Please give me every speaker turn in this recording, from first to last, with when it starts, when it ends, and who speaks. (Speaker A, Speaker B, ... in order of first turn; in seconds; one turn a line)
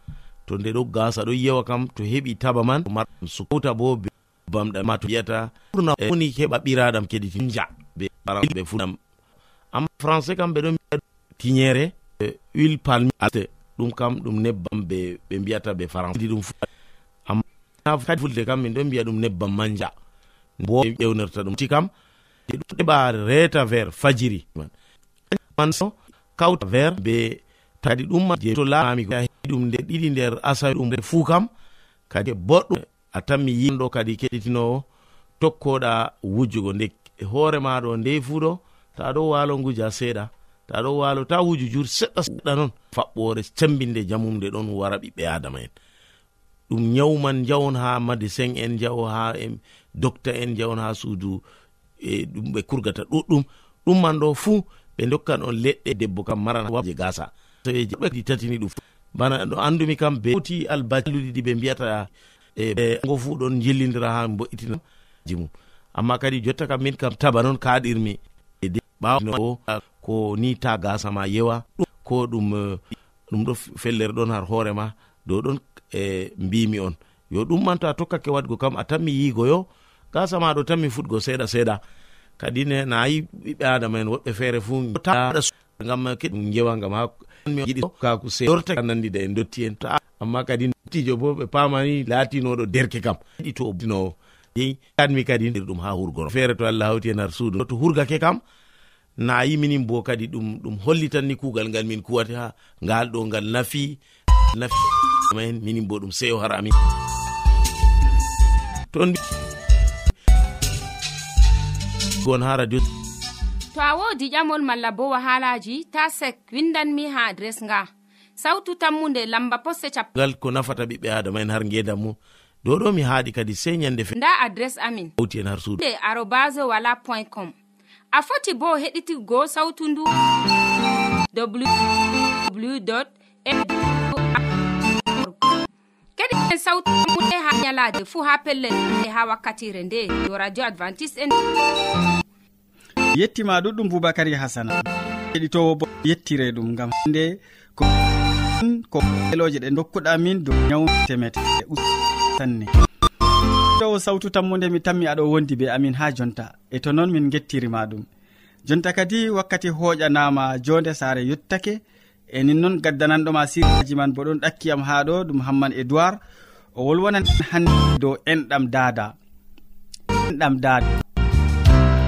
Speaker A: 0.5-9.0
Speaker A: 9.7-16.6
Speaker A: 17.2-19.9
Speaker A: 20.6-21.9
Speaker A: 22.5-24.7
Speaker A: 25.3-31.5
Speaker A: 32.1-34.8
Speaker A: 35.4-45.7
Speaker A: 46.7-51.4
Speaker A: 52.0-81.8
Speaker A: 82.4-98.4
Speaker A: 99.2-104.0
Speaker A: 105.3-106.7
Speaker A: 112.2-112.8
Speaker B: 113.7-120.1
Speaker A: 120.1-124.1
Speaker B: 124.1-125.1
Speaker A: 125.2-125.8
Speaker B: 125.8-127.5
Speaker B: 128.1-130.1
Speaker B: 131.3-131.7
Speaker B: 132.4-134.4
Speaker B: 135.1-135.5
Speaker B: 136.2-141.3
Speaker C: 143.1-144.8
Speaker C: 145.3-147.9
Speaker C: 148.6-151.8
Speaker C: 152.4-152.7
Speaker C: 153.8-158.1
Speaker C: 158.6-161.8
Speaker C: 162.3-166.2
Speaker C: 166.8-169.1
Speaker C: 170.3-170.9